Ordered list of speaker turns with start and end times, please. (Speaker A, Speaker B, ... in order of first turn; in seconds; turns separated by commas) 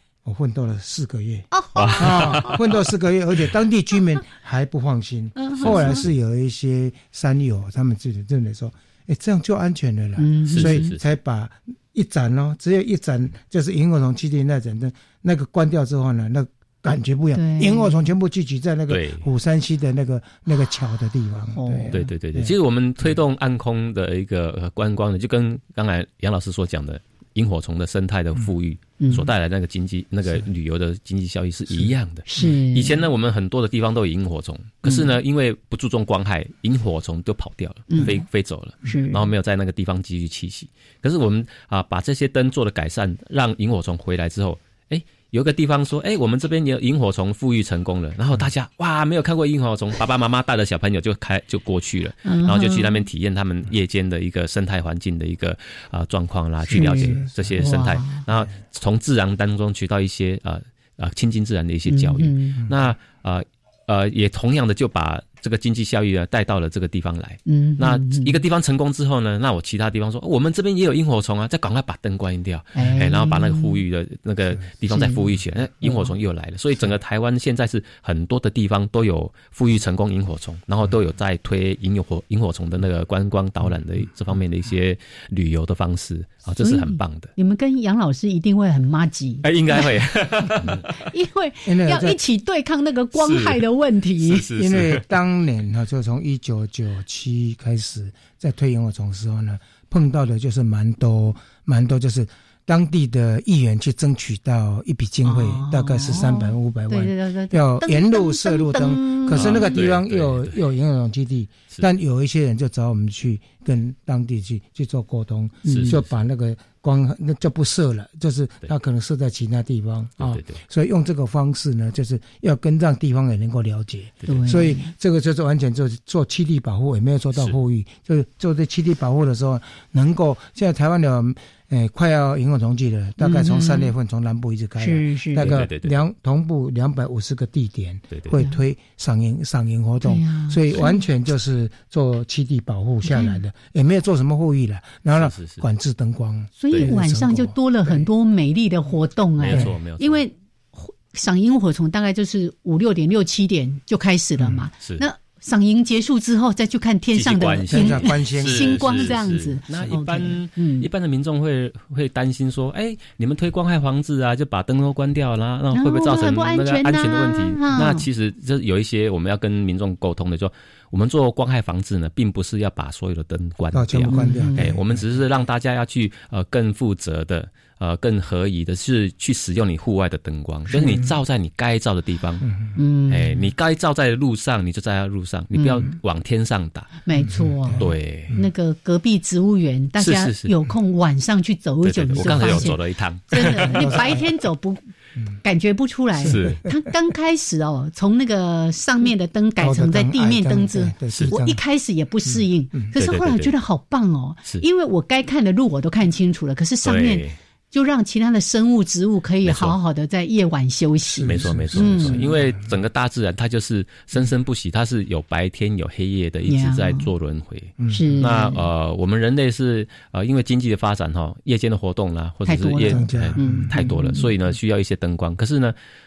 Speaker A: 0.2-22.6, Speaker B: 1.5-2.6, Speaker C: 1.7-2.6, Speaker B: 5.4-6.0, Speaker C: 5.6-6.0, Speaker B: 10.2-10.9, Speaker C: 10.5-11.0, Speaker B: 17.3-18.1, Speaker C: 18.9-19.2, Speaker B: 21.6-22.0, Speaker C: 21.9-87.3, Speaker B: 29.0-29.3, Speaker B: 32.2-33.0, Speaker B: 37.9-38.2, Speaker B: 38.8-39.2, Speaker B: 52.2-53.0, Speaker B: 56.7-58.2, Speaker B: 61.9-62.6, Speaker B: 67.5-68.4, Speaker B: 72.8-73.8, Speaker B: 74.9-75.2, Speaker B: 86.6-89.8, Speaker C: 89.4-91.0, Speaker B: 90.9-94.5, Speaker A: 91.6-92.2, Speaker C: 93.2-93.6, Speaker C: 94.2-95.0, Speaker A: 94.5-148.0, Speaker B: 105.2-109.8, Speaker C: 109.3-110.6, Speaker B: 115.6-116.0, Speaker C: 120.2-120.6, Speaker B: 124.2-124.9, Speaker B: 133.2-133.9, Speaker B: 134.8-135.5, Speaker C: 135.4-135.9, Speaker B: 140.0-141.0, Speaker B: 143.0-143.4, Speaker C: 145.2-145.6, Speaker B: 146.6-160.8, Speaker C: 146.7-147.0, Speaker C: 149.4-150.2, Speaker A: 149.5-149.7, Speaker C: 157.1-182.5, Speaker A: 157.7-159.2, Speaker B: 165.7-168.1, Speaker A: 173.7-174.8, Speaker B: 174.1-174.7, Speaker B: 182.7-183.4, Speaker C: 183.1-186.9, Speaker B: 185.5-185.8, Speaker B: 187.1-192.8, Speaker A: 187.3-188.4, Speaker C: 187.7-188.3, Speaker C: 190.0-190.5, Speaker C: 191.8-194.2, Speaker B: 193.3-194.8, Speaker A: 193.5-194.2, Speaker B: 195.4-212.3, Speaker A: 196.2-196.5, Speaker C: 196.2-196.6, Speaker A: 199.6-201.6, Speaker A: 202.2-202.9, Speaker C: 203.0-203.5, Speaker C: 206.8-207.4, Speaker C: 209.4-209.8, Speaker A: 211.0-212.6, Speaker C: 211.2-225.8, Speaker B: 216.5-217.1, Speaker A: 217.8-218.2, Speaker B: 217.9-218.6, Speaker B: 222.4-224.3, Speaker A: 222.8-223.7